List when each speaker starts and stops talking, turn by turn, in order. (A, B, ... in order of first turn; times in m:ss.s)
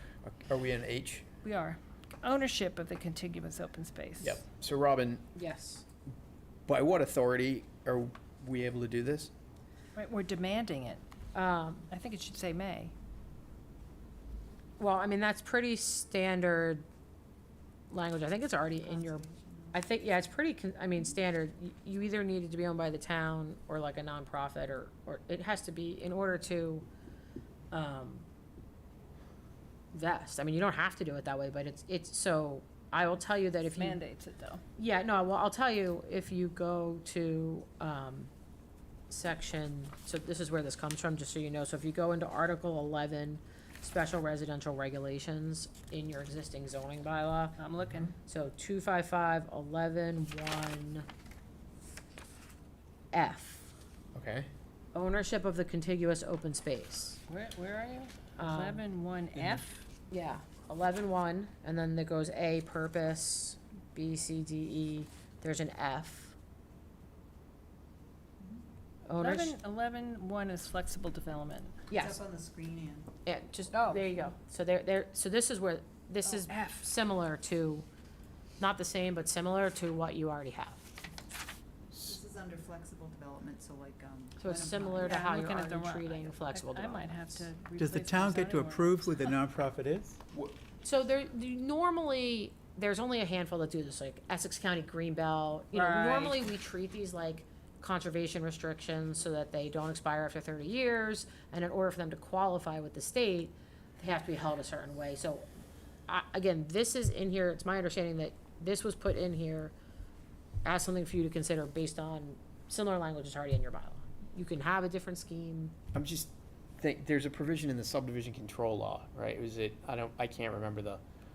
0:00.2-0:01.3 A
0:01.4-0:04.4 B
0:04.2-0:05.2 A
0:05.3-0:05.8 C
0:06.7-0:09.3 A
0:10.0-0:11.0 B
0:11.3-0:11.9 C
0:11.9-0:12.9 B
0:14.8-0:16.8 C
0:17.9-0:26.9 C
0:18.8-0:19.8 D
0:27.7-0:28.2 C
0:29.9-0:34.0 C
0:33.8-0:34.6 B
0:34.8-0:38.3 C
0:39.1-0:47.6 C
0:47.6-0:48.2 B
0:48.2-0:51.0 C
0:53.1-0:53.7 C
0:54.1-0:54.5 A
0:54.9-0:57.2 C
0:57.3-0:59.8 B
0:58.4-0:58.8 C
0:59.3-0:59.6 A
1:00.1-1:06.4 C
1:09.0-1:09.5 C
1:09.2-1:11.9 B
1:11.9-1:12.2 C
1:11.9-1:13.1 D
1:13.2-1:17.8 C
1:13.7-1:14.1 B
1:16.2-1:16.9 B
1:18.6-1:20.9 C
1:21.9-1:25.3 D
1:24.4-1:27.4 C
1:24.9-1:29.3 B
1:27.8-1:30.2 E
1:30.8-1:45.5 C
1:35.7-1:36.5 B
1:46.1-1:49.7 C
1:50.6-1:55.8 C
1:55.9-2:01.0 A